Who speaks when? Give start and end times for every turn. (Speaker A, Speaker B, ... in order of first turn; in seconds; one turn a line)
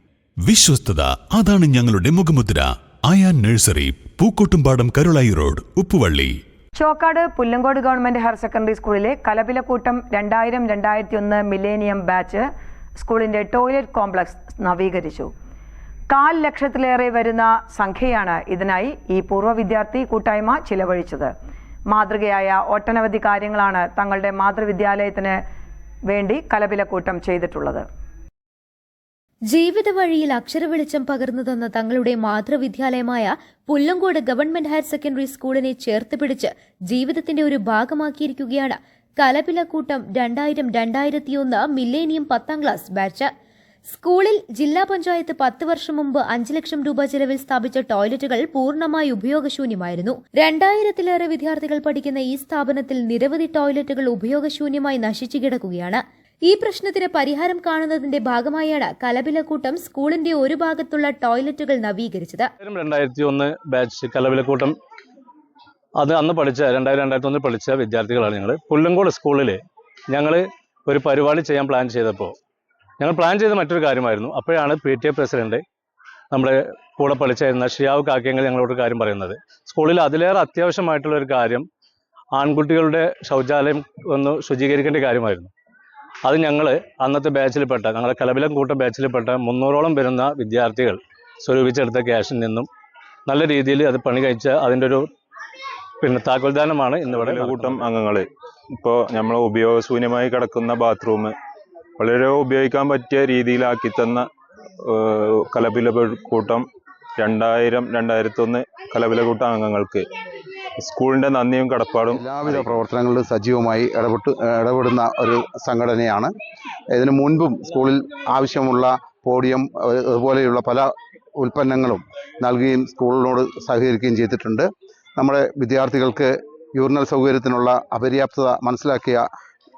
Speaker A: 0.4-6.4
Speaker B: 6.8-12.4
Speaker B: 13.0-15.3
Speaker B: 16.1-21.3
Speaker B: 21.9-25.4
Speaker B: 26.1-27.8
Speaker C: 29.5-43.3
Speaker C: 43.9-62.5
Speaker D: 62.6-64.7
Speaker D: 66.0-72.3
Speaker D: 73.0-75.6
Speaker D: 76.3-81.6
Speaker D: 82.3-85.5
Speaker D: 86.2-92.7
Speaker D: 93.3-95.1
Speaker D: 96.0-97.9
Speaker E: 97.1-98.2
Speaker E: 98.8-101.3
Speaker E: 102.0-104.2
Speaker E: 104.8-106.7
Speaker E: 107.2-110.0
Speaker E: 110.8-112.8
Speaker F: 112.1-116.3
Speaker F: 116.9-129.3